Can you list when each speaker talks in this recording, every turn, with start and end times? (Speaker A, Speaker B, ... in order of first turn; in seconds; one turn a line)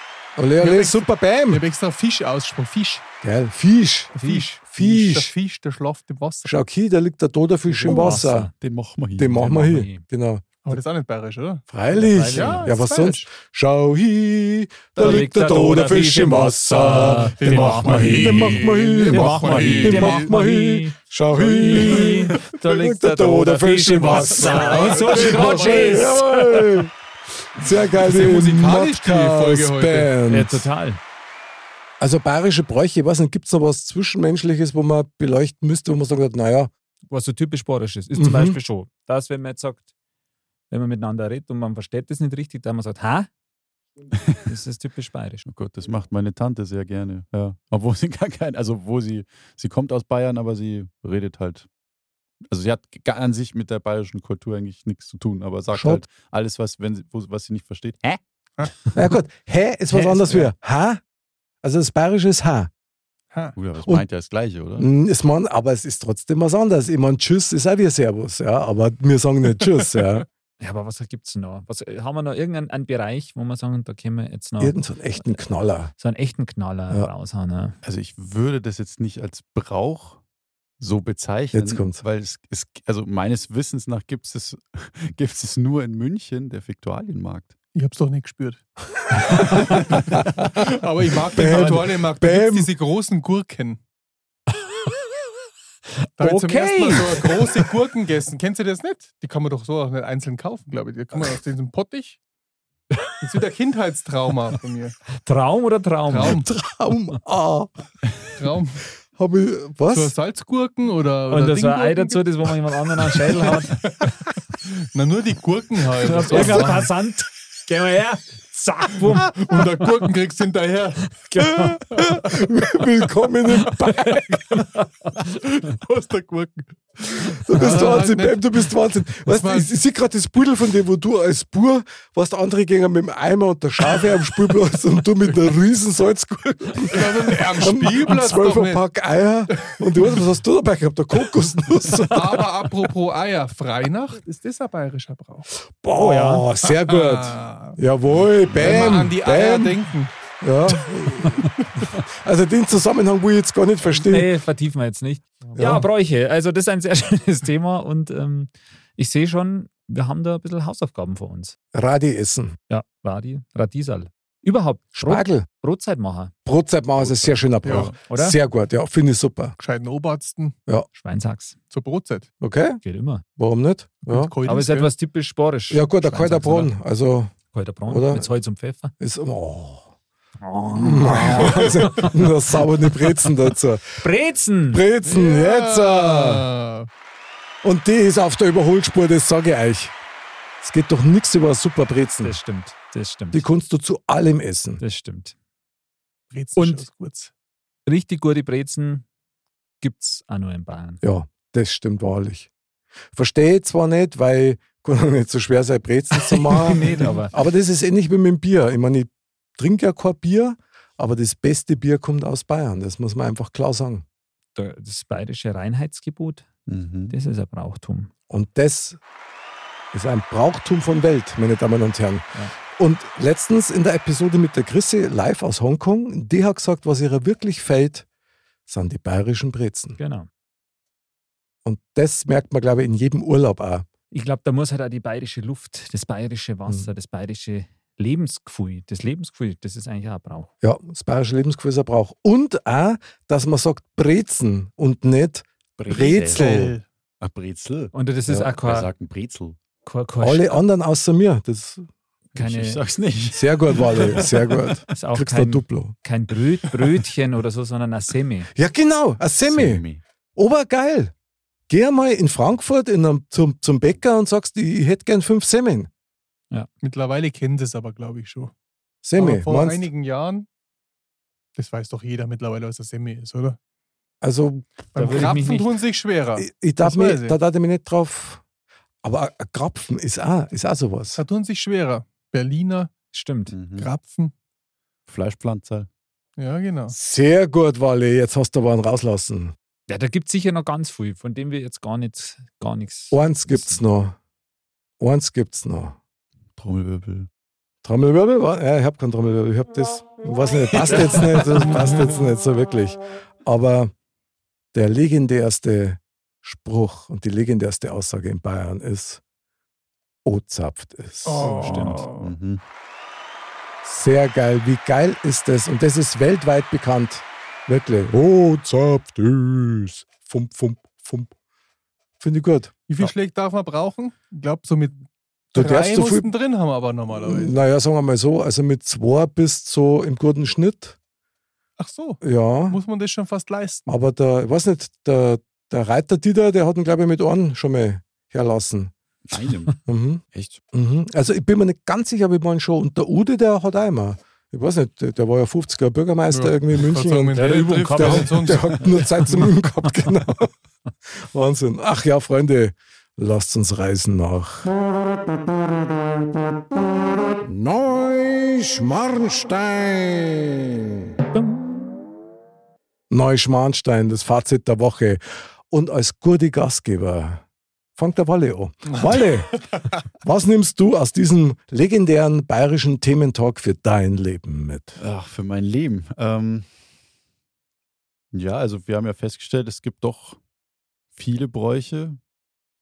Speaker A: 0.4-1.6
Speaker B: 0.6-3.0
Speaker A: 3.2-5.3
Speaker C: 4.1-4.6
Speaker B: 4.2-6.6
Speaker A: 6.5-8.5
Speaker C: 7.7-8.5
Speaker D: 8.6-9.5
Speaker A: 9.2-10.8
Speaker C: 9.4-10.0
Speaker B: 10.6-11.7
Speaker A: 11.7-26.9
Speaker C: 11.9-12.8
Speaker B: 12.2-13.3
Speaker C: 15.0-26.9
Speaker B: 16.9-20.3
Speaker B: 21.6-22.4
Speaker B: 24.0-26.2
Speaker A: 27.5-30.7
Speaker B: 27.9-30.1
Speaker C: 30.3-31.0
Speaker A: 32.0-36.7
Speaker C: 37.1-39.8
Speaker A: 38.1-38.6
Speaker C: 40.7-43.3
Speaker C: 44.5-45.5
Speaker D: 45.5-51.7
Speaker D: 52.5-58.2
Speaker A: 55.7-56.0
Speaker A: 58.9-61.0
Speaker C: 59.9-60.5
Speaker A: 61.6-62.7
Speaker D: 63.5-64.9
Speaker A: 64.8-70.3
Speaker C: 70.6-75.4
Speaker A: 74.6-75.9
Speaker C: 76.0-77.8
Speaker D: 77.8-80.2
Speaker D: 80.8-87.5
Speaker A: 81.5-82.0
Speaker B: 87.8-88.6
Speaker C: 89.3-89.7
Speaker B: 89.6-90.0
Speaker A: 90.2-90.8
Speaker B: 90.6-93.8
Speaker A: 91.3-92.7
Speaker C: 96.2-97.5
Speaker B: 96.2-102.2
Speaker B: 103.2-105.0
Speaker C: 105.2-106.5
Speaker B: 106.1-106.5
Speaker A: 106.2-107.7
Speaker B: 108.4-108.8
Speaker A: 109.2-110.2
Speaker B: 109.9-112.5
Speaker C: 111.3-113.8
Speaker B: 113.1-116.9
Speaker C: 116.0-119.7
Speaker A: 116.3-116.7
Speaker B: 119.1-121.2
Speaker C: 121.1-122.2
Speaker A: 121.9-124.4
Speaker C: 123.6-124.9
Speaker B: 125.2-129.7
Speaker A: 127.3-142.5
Speaker B: 136.8-138.8
Speaker B: 139.5-140.2
Speaker B: 142.1-145.5
Speaker A: 145.8-149.9
Speaker C: 145.9-146.5
Speaker B: 146.6-147.8
Speaker D: 148.2-149.0
Speaker B: 148.5-150.1
Speaker A: 150.4-154.3
Speaker C: 153.9-161.6
Speaker A: 155.6-155.9
Speaker A: 161.7-162.6
Speaker C: 162.7-166.3
Speaker A: 164.9-165.5
Speaker A: 166.4-169.6
Speaker D: 167.0-167.9
Speaker B: 167.6-167.9
Speaker C: 168.1-168.4
Speaker B: 169.6-170.6
Speaker C: 170.9-171.6
Speaker B: 171.7-172.3
Speaker A: 172.4-172.8
Speaker C: 172.8-173.2
Speaker A: 173.4-174.3
Speaker B: 174.1-174.9
Speaker C: 174.5-176.8
Speaker A: 175.7-177.3
Speaker C: 177.5-178.9
Speaker A: 177.9-178.3
Speaker A: 179.0-179.9
Speaker C: 180.4-182.3
Speaker A: 180.8-184.0
Speaker B: 181.2-181.9
Speaker C: 184.0-184.8
Speaker A: 184.7-186.5
Speaker B: 185.0-186.9
Speaker A: 187.6-189.9
Speaker A: 190.6-192.4
Speaker C: 192.2-193.4
Speaker A: 193.3-194.8
Speaker C: 194.8-195.3
Speaker B: 196.3-197.3
Speaker C: 196.6-196.9
Speaker C: 197.9-199.1
Speaker C: 199.8-201.0
Speaker A: 201.0-202.5
Speaker A: 203.1-214.1
Speaker C: 206.1-207.3
Speaker C: 214.6-216.5
Speaker D: 216.7-217.1
Speaker C: 217.1-218.1
Speaker A: 218.3-219.0
Speaker A: 219.9-228.1
Speaker A: 228.7-230.0
Speaker C: 230.0-230.3
Speaker A: 231.7-233.9
Speaker C: 234.1-240.5
Speaker A: 240.6-246.8
Speaker D: 245.8-246.5
Speaker B: 245.9-246.8
Speaker D: 247.2-247.9
Speaker C: 247.9-248.9
Speaker D: 248.6-249.6
Speaker C: 249.8-250.6
Speaker A: 250.2-251.8
Speaker D: 252.3-254.8
Speaker C: 252.4-252.8
Speaker A: 253.3-255.9
Speaker C: 254.9-258.5
Speaker A: 258.6-259.8
Speaker D: 259.5-260.0
Speaker A: 260.4-261.1
Speaker A: 261.7-265.9
Speaker B: 266.8-268.5
Speaker A: 269.0-269.9
Speaker B: 269.2-270.5
Speaker B: 271.6-273.6
Speaker A: 274.2-275.4
Speaker C: 274.9-275.7
Speaker B: 275.0-277.4
Speaker A: 276.4-278.4
Speaker A: 279.0-281.2
Speaker B: 281.2-282.9
Speaker C: 283.1-283.6
Speaker D: 283.5-283.9
Speaker B: 283.8-284.3
Speaker D: 285.1-285.9
Speaker B: 286.4-287.0
Speaker A: 286.9-289.6
Speaker C: 289.9-293.8
Speaker A: 293.1-294.2
Speaker A: 295.0-296.0
Speaker D: 296.6-297.3
Speaker A: 297.8-303.9
Speaker C: 300.9-301.4
Speaker B: 301.7-302.1
Speaker A: 304.7-309.2
Speaker A: 310.2-312.1
Speaker B: 311.2-312.3
Speaker D: 311.6-312.6
Speaker A: 313.8-321.3
Speaker A: 322.2-323.0
Speaker B: 322.9-325.0
Speaker B: 325.5-327.6
Speaker A: 325.6-326.3
Speaker A: 327.2-331.0
Speaker B: 331.8-333.9
Speaker A: 332.2-332.8
Speaker A: 333.9-338.9
Speaker D: 339.3-340.6
Speaker A: 339.9-350.5
Speaker B: 346.3-349.6
Speaker C: 347.4-349.2
Speaker A: 351.2-354.7
Speaker A: 357.4-360.9
Speaker C: 361.4-361.8
Speaker A: 363.1-367.4
Speaker A: 368.0-375.0
Speaker D: 375.0-376.7
Speaker D: 378.3-380.4
Speaker D: 381.1-382.2